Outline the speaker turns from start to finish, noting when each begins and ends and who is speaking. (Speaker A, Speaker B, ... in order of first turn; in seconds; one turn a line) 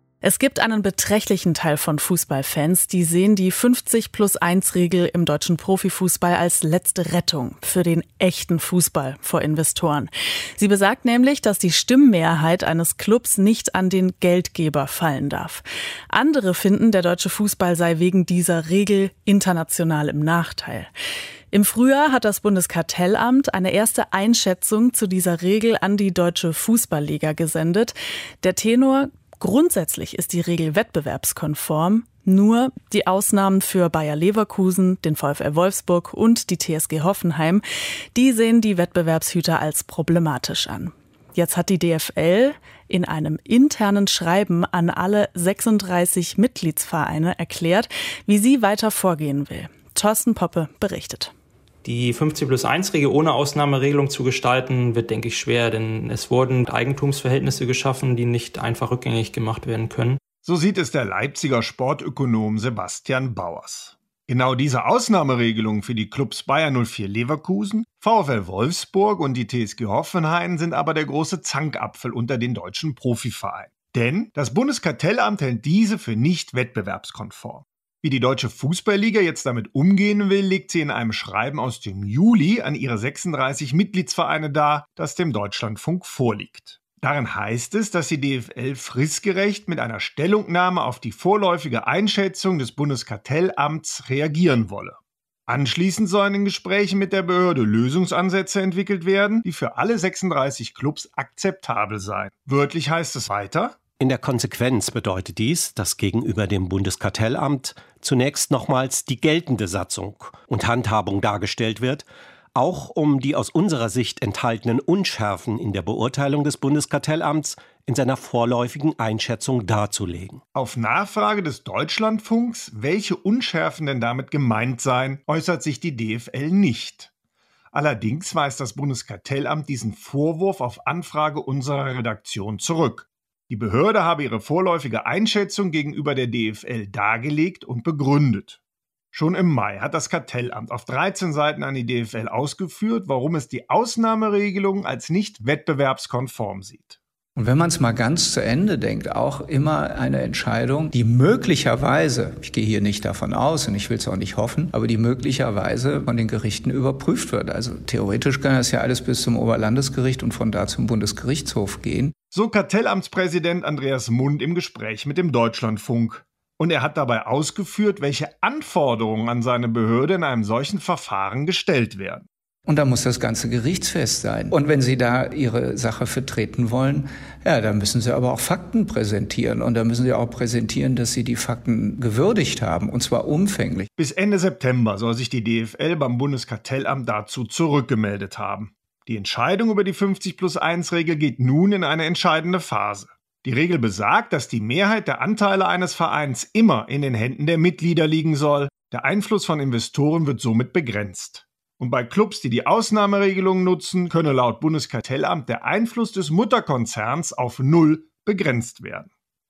Speaker A: 0.2-20.9
Speaker A: 21.5-37.6
Speaker A: 38.1-51.3
Speaker B: 51.8-60.2
Speaker C: 60.4-103.8
Speaker D: 104.0-120.4
Speaker C: 120.5-127.1
Speaker C: 127.7-138.6
Speaker C: 139.1-147.0
Speaker E: 147.3-162.1
Speaker C: 162.3-172.3
Speaker E: 172.7-183.9
Speaker C: 184.0-209.1